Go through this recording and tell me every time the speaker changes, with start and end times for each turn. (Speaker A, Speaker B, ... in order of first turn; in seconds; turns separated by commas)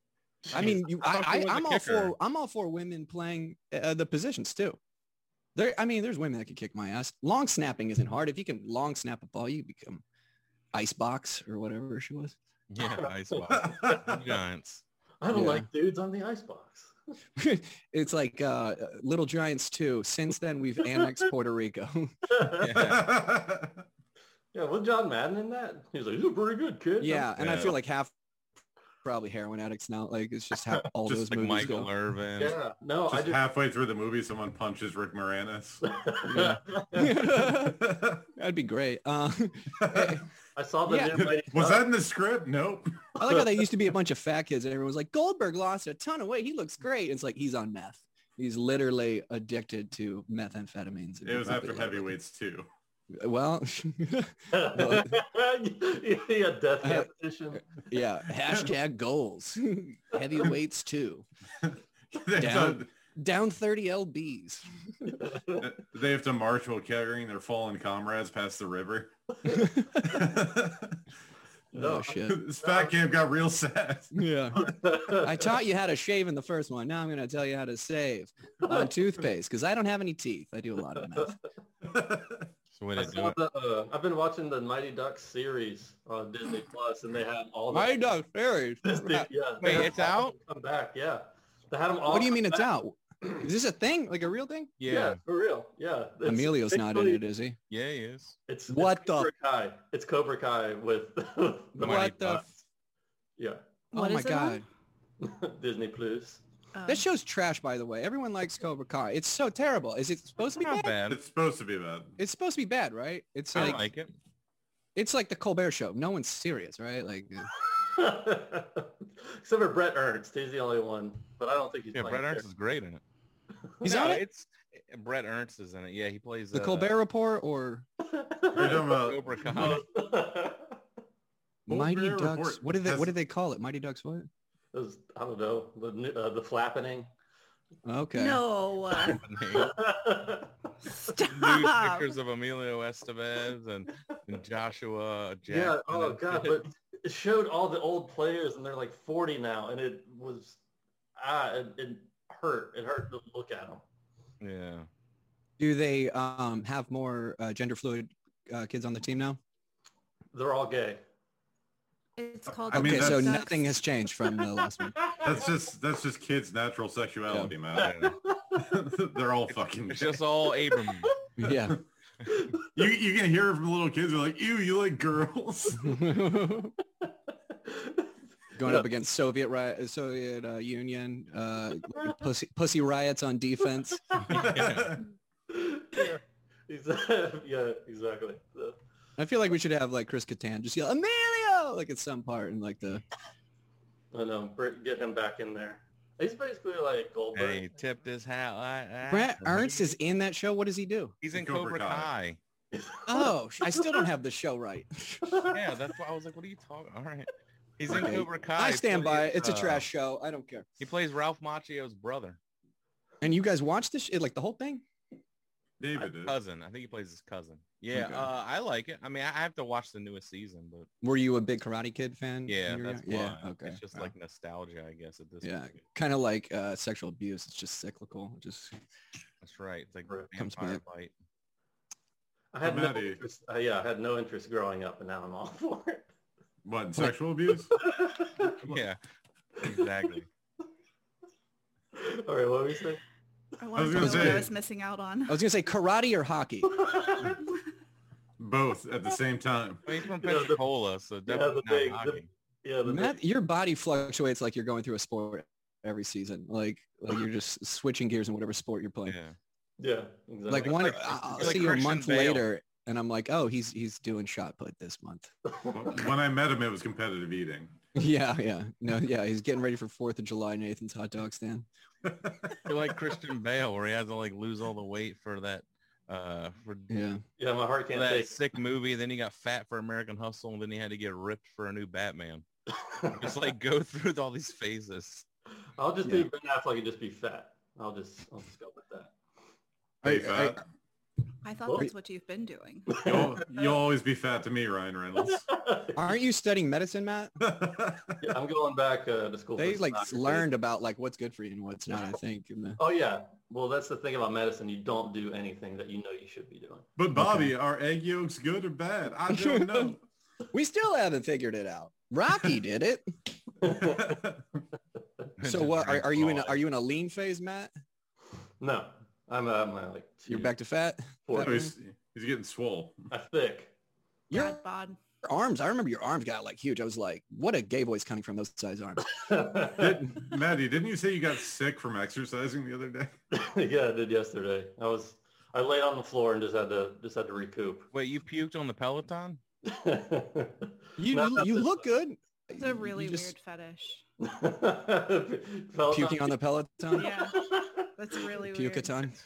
Speaker A: 0.5-2.1, Speaker B: 0.5-4.8, Speaker B: 5.5-10.0, Speaker B: 10.7-12.4, Speaker A: 12.7-14.8, Speaker C: 13.5-14.3, Speaker D: 15.2-16.9, Speaker B: 15.3-15.7, Speaker B: 17.4-22.4, Speaker D: 22.3-22.7, Speaker A: 22.6-23.1, Speaker C: 22.8-23.8, Speaker D: 24.5-27.4, Speaker B: 27.0-28.1, Speaker A: 27.4-27.7, Speaker B: 29.0-31.9, Speaker A: 31.3-32.6, Speaker D: 32.4-33.4, Speaker C: 33.1-35.8, Speaker D: 35.8-37.2, Speaker B: 36.2-40.2, Speaker C: 37.3-38.2, Speaker C: 39.8-40.1, Speaker D: 40.6-41.9, Speaker B: 40.9-41.3, Speaker C: 41.2-43.4, Speaker B: 43.2-52.1, Speaker C: 51.2-52.7, Speaker B: 53.1-55.2, Speaker D: 54.5-57.7, Speaker B: 56.8-57.1, Speaker B: 57.9-61.3, Speaker C: 61.6-62.9, Speaker B: 62.4-65.2, Speaker D: 65.2-65.6, Speaker C: 65.6-69.1, Speaker B: 69.5-70.1, Speaker C: 70.0-71.0, Speaker D: 71.7-73.0, Speaker B: 71.7-72.5, Speaker C: 72.2-74.7, Speaker B: 74.1-81.4, Speaker D: 74.6-75.4, Speaker C: 81.8-82.5, Speaker A: 82.8-83.4, Speaker D: 83.0-88.0, Speaker B: 87.7-89.8, Speaker D: 88.8-92.7, Speaker A: 89.6-90.3, Speaker B: 92.1-94.7, Speaker A: 94.8-95.2, Speaker D: 94.9-97.2, Speaker B: 96.2-97.6, Speaker A: 97.7-98.4, Speaker D: 98.5-102.3, Speaker B: 98.7-99.3, Speaker B: 101.8-102.4, Speaker A: 101.8-102.5, Speaker D: 103.4-103.6, Speaker E: 103.9-104.6, Speaker B: 103.9-104.7, Speaker D: 105.2-106.4, Speaker E: 106.8-107.0, Speaker B: 106.9-110.9, Speaker A: 110.6-111.2, Speaker C: 111.1-112.2, Speaker B: 112.2-113.8, Speaker A: 113.5-114.1, Speaker B: 115.0-117.5, Speaker D: 117.6-122.5, Speaker A: 121.9-123.0, Speaker D: 123.8-124.2, Speaker B: 123.8-124.2, Speaker A: 123.8-127.0, Speaker B: 126.5-127.9, Speaker D: 128.1-130.8, Speaker C: 128.5-129.8, Speaker A: 128.8-129.8, Speaker B: 131.7-134.3, Speaker C: 131.7-133.1, Speaker D: 134.7-137.1, Speaker B: 137.8-138.4, Speaker E: 138.2-139.2, Speaker A: 138.9-139.8, Speaker D: 139.5-140.6, Speaker E: 140.8-142.1, Speaker A: 141.3-146.6, Speaker D: 145.5-150.6, Speaker D: 151.2-153.8, Speaker A: 154.4-154.9, Speaker B: 155.6-159.4, Speaker D: 160.3-161.0, Speaker E: 162.2-163.8, Speaker C: 162.7-163.4, Speaker B: 162.7-165.0, Speaker C: 165.2-167.9, Speaker D: 167.8-168.8, Speaker A: 167.8-168.2, Speaker C: 168.6-170.3, Speaker A: 169.5-171.2, Speaker D: 170.9-171.2, Speaker B: 171.4-171.8, Speaker D: 172.3-172.7, Speaker C: 172.7-176.1, Speaker B: 175.8-176.8, Speaker D: 177.0-178.9, Speaker B: 178.6-184.2, Speaker A: 184.3-185.0, Speaker C: 184.3-185.1, Speaker D: 185.5-188.8, Speaker B: 189.2-193.0, Speaker D: 194.1-197.7, Speaker A: 197.3-199.9, Speaker B: 199.1-201.2, Speaker A: 201.2-202.4, Speaker C: 201.3-202.1, Speaker D: 202.7-204.0, Speaker B: 203.1-205.5, Speaker A: 205.5-209.9, Speaker B: 207.9-210.7, Speaker A: 210.8-212.4, Speaker B: 213.2-214.8, Speaker C: 215.8-216.3, Speaker A: 216.2-220.9, Speaker B: 217.9-218.3, Speaker B: 221.0-224.1, Speaker A: 222.5-225.6, Speaker B: 225.4-228.8, Speaker A: 229.4-231.1, Speaker B: 230.4-230.8, Speaker D: 232.5-236.1, Speaker C: 232.6-233.2, Speaker C: 236.7-237.8, Speaker D: 237.8-238.6, Speaker A: 238.6-239.0, Speaker A: 239.6-240.3, Speaker D: 241.9-243.0, Speaker E: 243.6-245.4, Speaker C: 243.7-244.5, Speaker B: 244.0-244.4, Speaker B: 245.3-246.8, Speaker D: 246.7-247.4, Speaker C: 248.4-249.8, Speaker A: 249.9-252.3, Speaker D: 250.2-250.6, Speaker D: 251.3-253.2, Speaker B: 252.9-259.2, Speaker A: 259.1-259.4, Speaker D: 259.8-261.7, Speaker B: 260.5-265.3, Speaker A: 260.6-262.5, Speaker C: 265.7-267.8, Speaker B: 267.9-271.7, Speaker A: 272.6-277.1, Speaker B: 276.9-277.2, Speaker D: 277.4-278.4, Speaker A: 277.9-282.4, Speaker D: 282.8-283.3, Speaker A: 283.1-285.3, Speaker D: 285.8-289.1, Speaker C: 290.0-290.6, Speaker B: 290.0-290.6, Speaker E: 291.4-293.1, Speaker D: 292.9-293.4, Speaker C: 293.0-295.5, Speaker D: 295.5-296.1, Speaker B: 295.9-297.3, Speaker C: 297.4-298.2, Speaker D: 298.2-300.5, Speaker B: 299.6-302.8, Speaker D: 302.8-306.9, Speaker C: 307.0-310.0, Speaker B: 307.1-307.5, Speaker B: 309.3-309.9, Speaker B: 310.5-313.1, Speaker D: 313.6-314.2, Speaker C: 313.8-314.4, Speaker A: 315.4-316.6, Speaker B: 315.4-317.7, Speaker D: 318.6-320.6, Speaker B: 320.3-321.7, Speaker D: 321.3-321.6, Speaker C: 321.4-323.1, Speaker D: 323.1-323.7, Speaker B: 324.3-324.6, Speaker E: 324.3-325.0, Speaker B: 325.2-329.2, Speaker D: 329.1-330.1, Speaker C: 329.7-333.1, Speaker D: 333.3-337.9, Speaker A: 337.9-339.4, Speaker D: 339.6-341.8, Speaker B: 341.0-343.3, Speaker E: 342.6-344.0, Speaker D: 344.2-346.4, Speaker B: 345.9-347.1, Speaker E: 346.9-349.1, Speaker D: 347.2-347.9, Speaker B: 348.5-349.2